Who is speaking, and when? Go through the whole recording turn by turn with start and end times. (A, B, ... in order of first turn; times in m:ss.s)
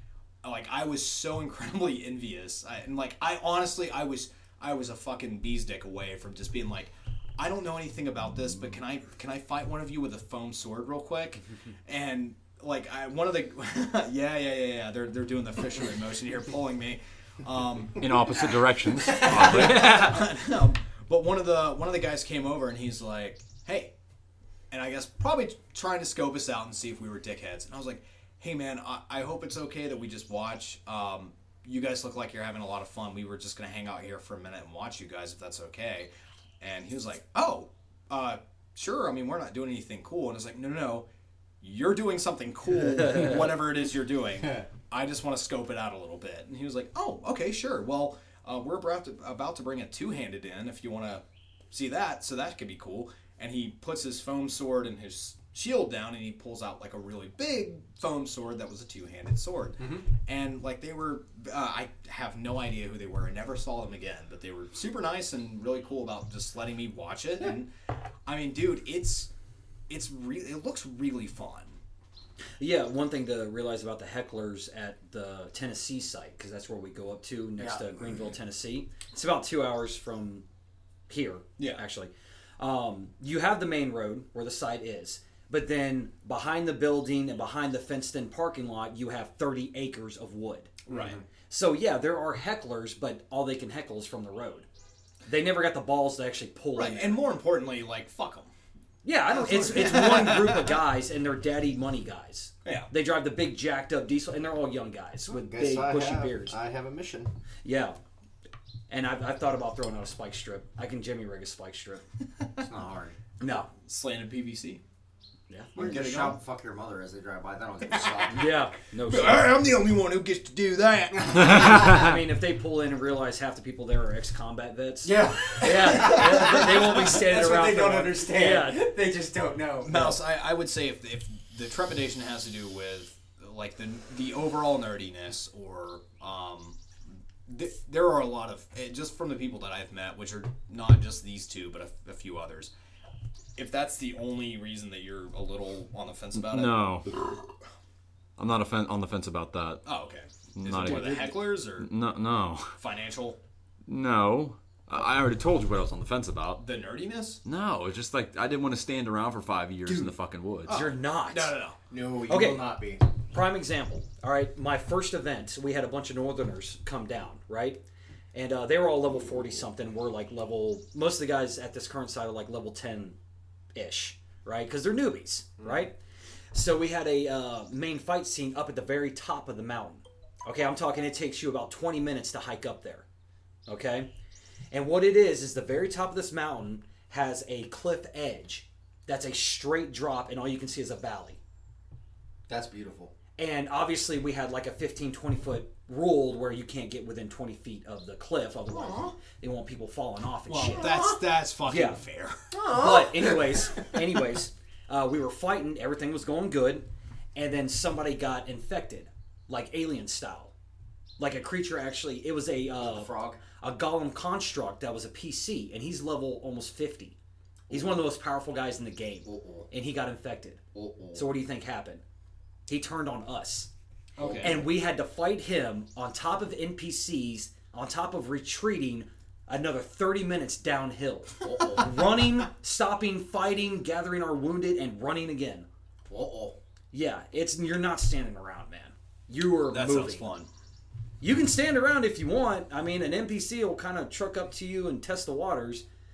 0:00.4-0:18.1 A
0:18.0-0:20.1 B
0:19.2-0:23.9 A
0:19.2-0:20.2 C
0:24.7-0:36.1 A
0:36.6-0:41.1 A
0:41.6-1:07.7 A
0:59.8-1:00.0 D
1:08.2-1:09.3 A
1:09.9-1:11.8 A
1:12.6-1:20.4 C
1:21.1-1:30.8 C
1:21.6-1:21.8 A
1:30.9-1:31.2 A
1:30.9-1:31.2 D
1:31.5-1:34.7 C
1:35.3-1:37.2 C
1:36.8-1:38.5 A
1:39.0-1:46.6 C
1:39.4-1:40.0 D
1:39.4-1:40.7 A
1:42.6-1:42.9 A
1:45.3-1:47.3 D
1:47.6-1:48.0 C
1:48.9-1:52.0 C
1:52.6-1:53.2 D
1:53.4-1:53.7 C
1:53.8-1:54.8 A
1:55.5-1:55.8 C
1:55.8-1:56.4 A
1:55.8-1:58.5 D
1:58.3-1:59.5 C
1:59.1-2:01.9 A
2:01.4-2:08.9 C
2:05.0-2:10.2 D
2:09.8-2:16.8 A
2:17.5-2:22.7 A
2:23.6-2:27.0 A
2:26.4-2:27.1 B
2:28.4-2:29.8 B
2:29.8-2:31.9 A
2:30.6-2:32.7 B
2:30.9-2:31.2 C
2:32.8-2:33.4 A
2:33.9-2:36.6 B
2:36.6-2:37.4 A
2:37.4-2:40.8 B
2:40.6-2:41.8 A
2:40.7-2:41.6 C
2:41.9-2:43.0 D
2:42.3-2:42.8 C
2:43.3-2:47.8 C
2:48.3-2:53.2 C
2:53.8-2:56.0 C
2:55.6-2:55.9 D
2:56.5-3:03.0 C
3:03.7-3:04.1 C
3:04.7-3:11.4 C
3:12.5-3:13.1 D
3:13.4-3:21.0 C
3:18.7-3:19.1 D
3:20.5-3:22.5 A
3:20.6-3:21.2 D
3:21.7-3:22.0 C
3:22.5-3:24.0 D
3:22.7-3:30.5 C
3:31.2-3:37.2 C
3:32.8-3:33.4 D
3:37.7-3:38.0 D
3:37.7-3:40.6 C
3:39.2-3:39.7 D
3:40.7-3:41.3 D
3:41.1-3:42.0 C
3:42.7-3:43.7 C
3:44.2-3:44.6 A
3:44.2-3:44.7 D
3:44.4-3:55.7 C
3:51.4-3:52.2 D
3:56.1-3:56.6 D
3:56.9-4:00.3 C
3:59.7-4:00.5 A
4:01.2-4:05.8 C